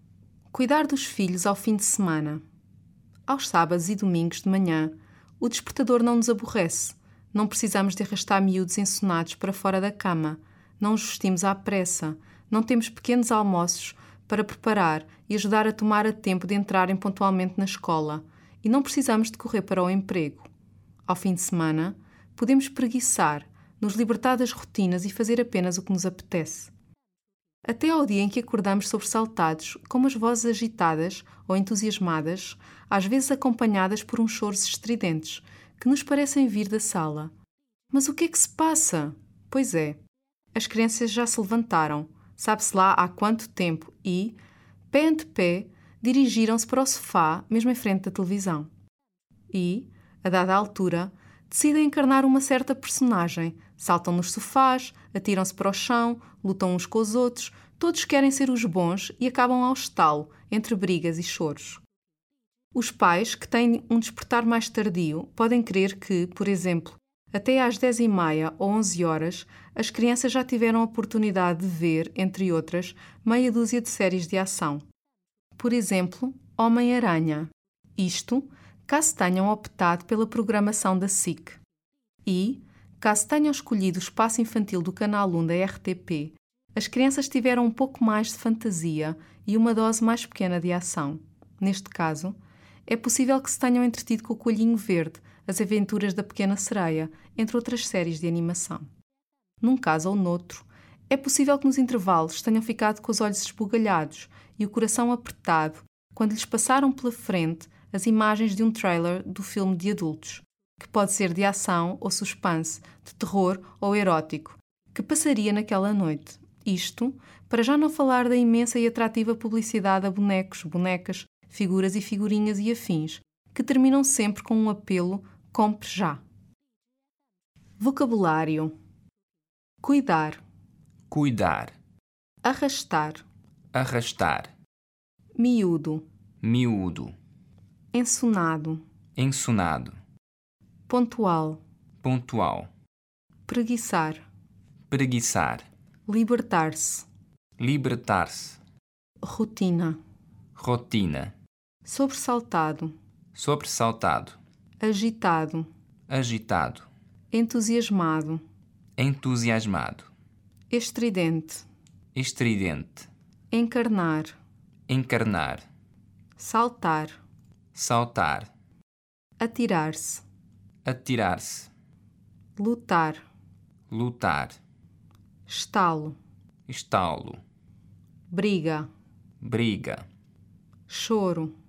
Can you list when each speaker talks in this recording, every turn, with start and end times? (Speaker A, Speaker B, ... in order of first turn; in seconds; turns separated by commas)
Speaker A: 0.5-2.4, Speaker A: 3.3-20.5, Speaker A: 21.1-26.7, Speaker A: 27.6-37.3, Speaker A: 37.9-40.0, Speaker A: 40.5-44.4, Speaker A: 44.9-48.7, Speaker A: 49.5-61.8, Speaker A: 62.7-74.8, Speaker A: 75.6-81.6, Speaker A: 82.2-92.3, Speaker A: 92.9-98.9, Speaker A: 99.6-126.2, Speaker A: 127.8-128.7, Speaker A: 129.8-130.4, Speaker B: 131.1-131.7, Speaker A: 132.4-133.2, Speaker B: 133.7-134.5, Speaker A: 135.4-136.0, Speaker B: 136.4-137.1, Speaker A: 137.9-138.8, Speaker B: 139.2-139.9, Speaker A: 140.9-141.6, Speaker B: 142.0-142.7, Speaker A: 143.5-144.2, Speaker B: 144.9-145.6, Speaker A: 146.1-147.1, Speaker B: 147.6-148.6, Speaker A: 149.2-150.0, Speaker B: 150.6-151.3, Speaker A: 151.8-152.9, Speaker B: 153.3-154.4, Speaker A: 154.8-155.7, Speaker B: 156.1-156.9, Speaker A: 157.3-158.4, Speaker B: 159.0-160.1, Speaker A: 160.7-161.6, Speaker B: 162.1-163.1, Speaker A: 163.5-164.4, Speaker B: 164.9-165.7, Speaker A: 166.4-167.2, Speaker B: 167.7-168.5, Speaker A: 169.4-170.2, Speaker B: 170.8-171.7, Speaker A: 172.6-173.2, Speaker B: 173.9-174.6, Speaker A: 175.5-176.2, Speaker B: 176.7-177.4, Speaker A: 178.3-178.9, Speaker B: 179.4-180.0, Speaker A: 180.9-181.5